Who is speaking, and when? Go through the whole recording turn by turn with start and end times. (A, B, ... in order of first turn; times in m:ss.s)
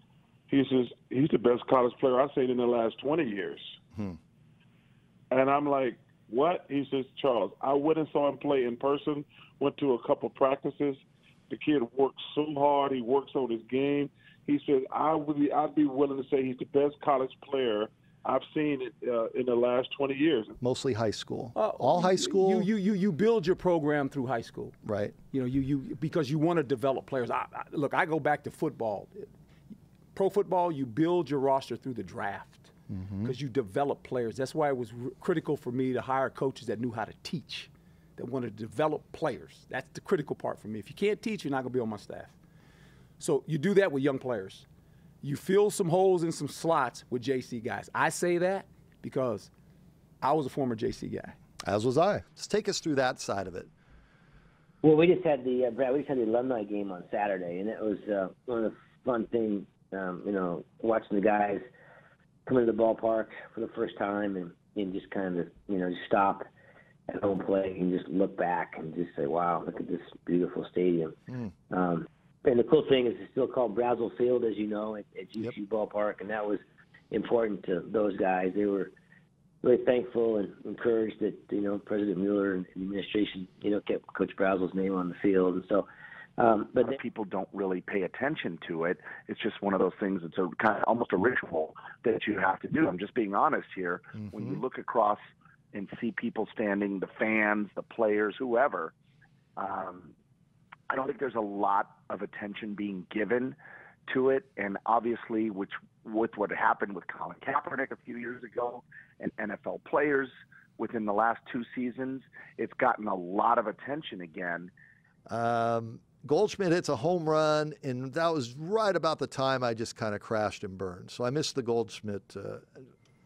0:00.5-0:03.7 A
0:05.3-0:20.6 A
0:20.6-0:22.7 B
0:21.5-0:29.3 C
0:24.8-0:25.2 B
0:30.1-0:32.7 C
0:32.9-0:33.3 B
0:33.2-0:42.4 C
0:43.2-0:44.6 C
0:45.2-0:49.5 C
0:50.2-0:51.4 C
0:51.6-0:53.7 B
0:54.8-1:01.6 D
1:02.4-1:06.4 D
1:07.1-1:11.2 D
1:11.7-1:18.9 D
1:19.6-1:25.9 D
1:26.4-1:27.0 D
1:26.9-1:35.2 E
1:34.2-1:34.4 B
1:35.7-1:38.9 E
1:39.6-1:40.1 E
1:40.9-1:43.6 E
1:44.1-1:54.7 E
1:55.3-2:02.8 B